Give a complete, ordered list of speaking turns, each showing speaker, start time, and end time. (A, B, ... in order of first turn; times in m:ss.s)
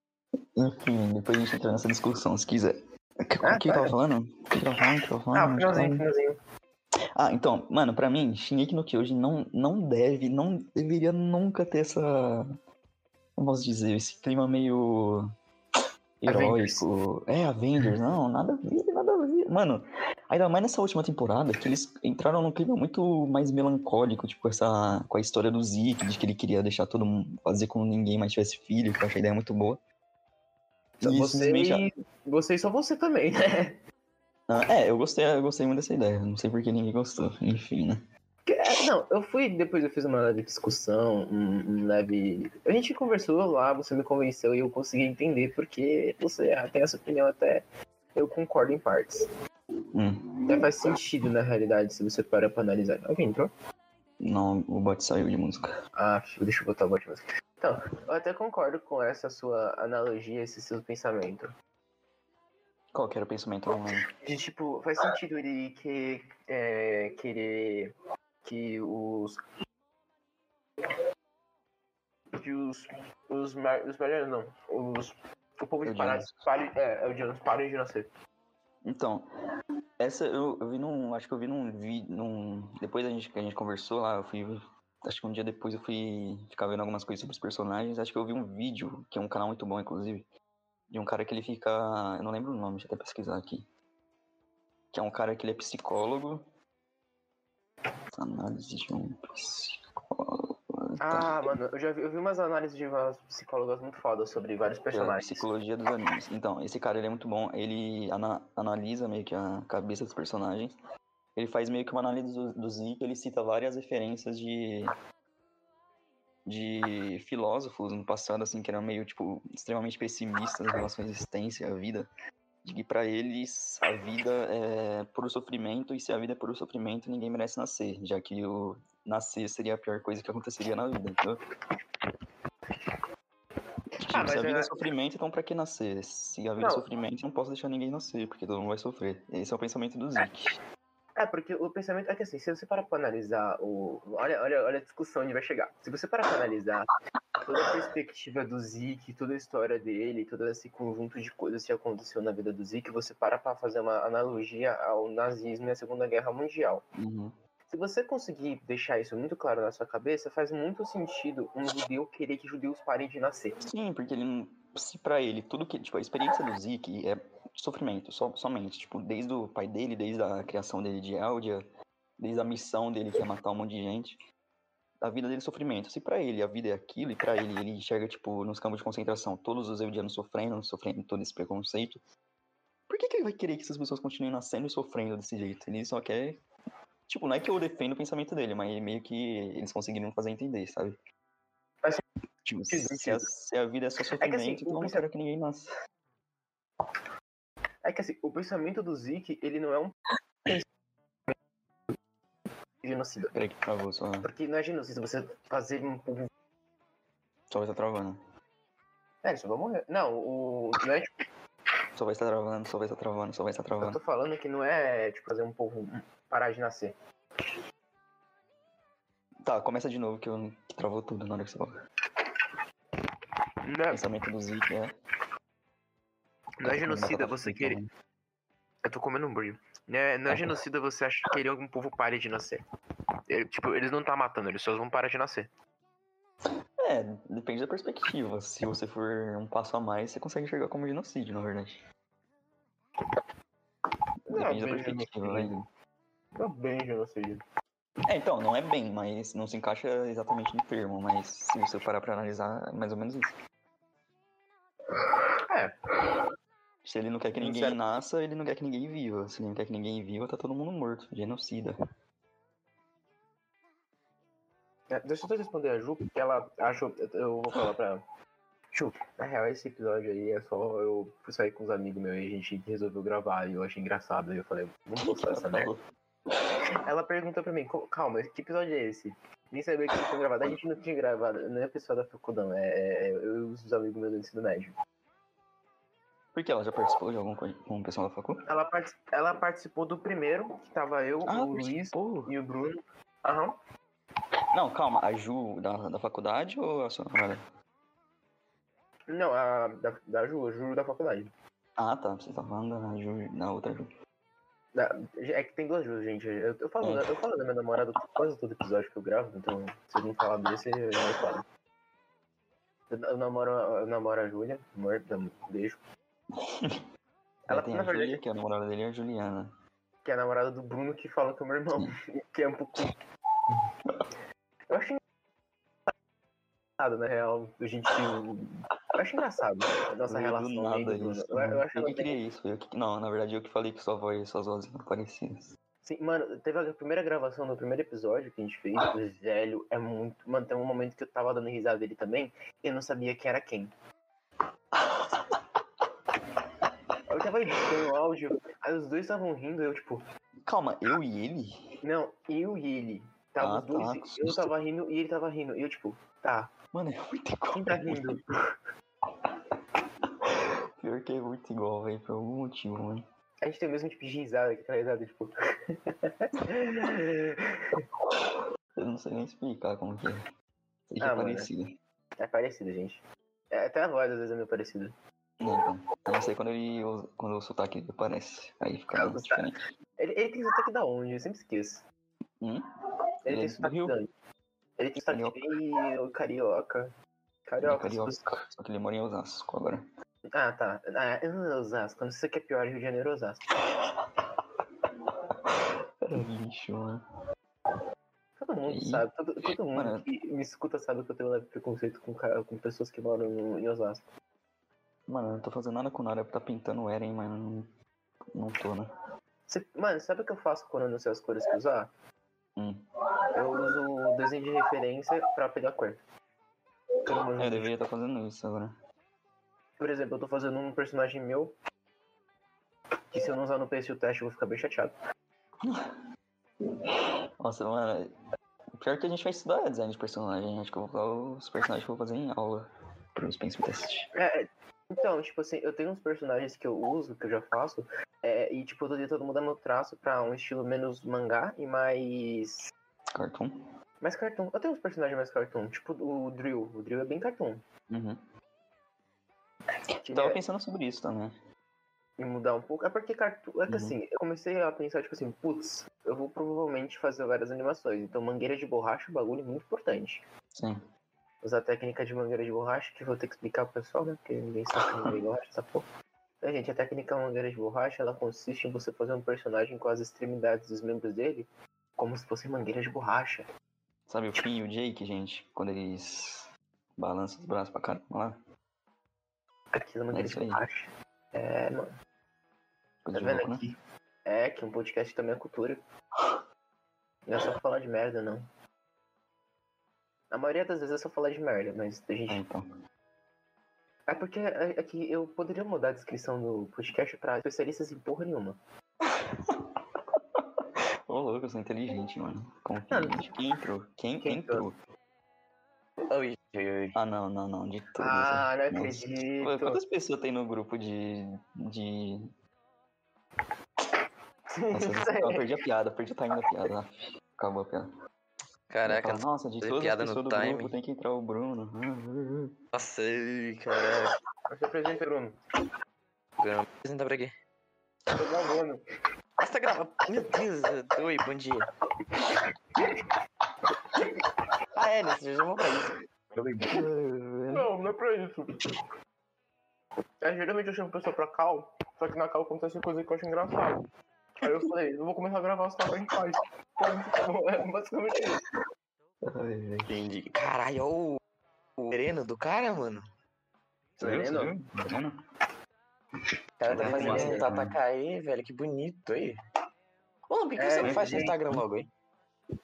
0:00.6-0:06.0 A
0:03.4-0:03.9 B
0:05.3-0:06.4 B
0:07.2-0:12.5 A
0:13.4-0:15.3 A
0:16.2-0:29.8 A
0:16.3-0:16.8 B
0:31.0-0:33.8 B
0:31.0-0:31.9 A
0:34.5-0:38.0 A
0:38.4-0:49.3 B
0:49.9-0:50.6 A
0:50.5-0:53.5 B
0:54.2-0:55.7 A
0:56.0-1:01.5 B
1:02.9-1:04.1 A
1:04.1-1:09.4 B
1:12.3-1:18.1 B
1:15.8-1:16.3 A
1:18.8-1:19.3 A
1:20.0-1:30.3 A
1:30.9-1:33.7 A
1:34.9-1:36.4 A
1:38.2-1:41.3 A
1:41.0-1:45.4 B
1:44.9-1:50.8 A
1:51.4-1:54.9 A
1:56.4-2:02.1 A
2:02.6-2:11.4 A
2:14.0-2:20.6 A
2:14.1-2:14.7 B
2:16.6-2:16.8 B
2:21.2-2:26.9 B
2:27.4-2:36.8 B
2:37.0-2:37.3 A
2:37.7-2:43.6 B
2:43.6-2:51.6 A
2:52.2-2:54.2 A
2:55.0-3:02.0 A
3:02.9-3:06.4 A
3:07.1-3:11.0 A
3:12.4-3:15.7 A
3:12.7-3:13.3 B
3:14.2-3:15.0 B
3:17.8-3:19.9 B
3:22.8-3:23.3 B
3:23.3-3:24.3 A
3:24.2-3:26.3 B
3:27.5-3:28.2 A
3:29.2-3:31.2 B
3:31.9-3:34.0 A
3:33.8-3:37.0 B
3:39.4-3:41.8 A
3:43.6-3:44.0 B
3:43.9-3:45.0 A
3:46.6-3:47.8 B
3:46.6-3:47.9 A
3:48.8-3:52.6 B
3:50.3-3:50.6 A
3:53.3-3:55.5 B
3:56.8-4:01.8 A
4:04.3-4:05.6 A
4:04.3-4:05.6 B
4:06.4-4:07.4 B
4:08.1-4:13.3 A
4:15.5-4:15.8 B
4:16.8-4:21.8 A
4:17.4-4:17.8 B
4:24.9-4:28.0 B
4:28.7-4:35.7 B
4:35.0-4:35.8 A
4:36.8-4:44.7 B
4:46.3-4:48.4 A
4:48.5-4:53.6 B
4:51.2-4:52.3 A
4:54.5-4:57.4 A
4:59.1-5:01.3 B
5:01.8-5:03.9 A
5:04.7-5:11.4 B
5:06.8-5:07.1 A
5:12.9-5:15.8 B
5:16.4-5:16.8 A
5:17.5-5:18.2 B
5:17.5-5:19.5 A
5:20.0-5:23.0 B
5:24.7-5:25.0 B
5:26.8-5:32.2 B
5:30.0-5:35.5 A
5:35.8-5:43.7 B
5:44.8-5:45.4 A
5:47.1-5:50.0 B
5:50.4-5:51.6 A
5:51.8-5:56.5 B
5:53.4-5:54.5 A
5:56.7-5:58.2 A
5:57.5-5:58.5 B
6:00.1-6:03.0 A
6:03.4-6:07.8 B
6:08.2-6:10.2 A
6:10.9-6:11.8 A
6:11.0-6:11.5 B
6:12.2-6:14.9 B
6:15.4-6:19.6 A
6:18.9-6:19.4 B
6:20.0-6:21.8 B
6:23.2-6:24.1 B
6:23.3-6:23.9 A
6:24.8-6:26.9 B
6:25.1-6:25.5 A
6:27.4-6:28.2 B
6:27.6-6:29.9 A
6:30.3-6:33.4 B
6:33.8-6:34.2 A
6:35.1-6:37.0 A
6:38.4-6:44.1 B
6:38.7-6:40.0 A
6:45.1-6:47.7 A
6:48.3-6:48.9 A
6:49.5-6:51.9 B
6:52.6-6:52.8 A
6:53.3-6:56.0 B
6:57.0-6:57.7 B
6:57.4-6:58.7 A
6:59.8-7:01.5 B
7:03.1-7:04.9 B
7:05.6-7:05.9 A
7:07.4-7:08.1 A
7:08.8-7:14.1 A
7:14.1-7:22.7 B
7:23.1-7:23.7 A
7:24.0-7:27.6 B
7:27.9-7:28.2 A
7:30.0-7:30.4 B
7:30.1-7:31.4 A
7:32.2-7:40.2 B
7:33.7-7:33.9 A
7:40.5-7:40.8 A
7:41.4-7:45.8 B
7:44.8-7:45.1 A
7:46.4-7:53.5 B
7:54.1-7:58.4 A
7:59.7-8:01.9 B
8:00.1-8:00.6 A
8:03.0-8:03.6 A
8:03.1-8:05.8 B
8:07.3-8:08.4 B
8:10.3-8:12.4 B
8:12.3-8:12.6 A
8:14.1-8:18.6 B
8:19.3-8:19.7 A
8:20.4-8:24.8 A
8:22.9-8:23.3 B
8:24.2-8:24.6 B
8:26.1-8:27.0 C
8:26.9-8:32.3 A
8:28.0-8:29.8 B
8:34.5-8:35.4 B
8:34.7-8:37.9 A
8:38.7-8:40.7 C
8:38.8-8:42.6 A
8:42.7-8:44.2 C
8:44.5-8:45.4 B
8:46.4-8:47.3 C
8:48.1-8:48.8 B
8:49.4-8:51.7 C
8:54.7-8:56.8 C
8:56.6-8:57.7 A
8:57.5-8:58.7 B
9:00.2-9:03.8 B
9:04.4-9:08.4 B
9:09.2-9:10.0 A
9:09.9-9:11.2 C
9:11.8-9:13.0 C
9:14.0-9:15.2 A
9:14.0-9:14.5 B
9:16.6-9:19.4 C
9:16.7-9:17.8 A
9:16.8-9:17.4 B
9:20.3-9:21.9 C
9:20.6-9:21.4 B
9:20.8-9:21.6 A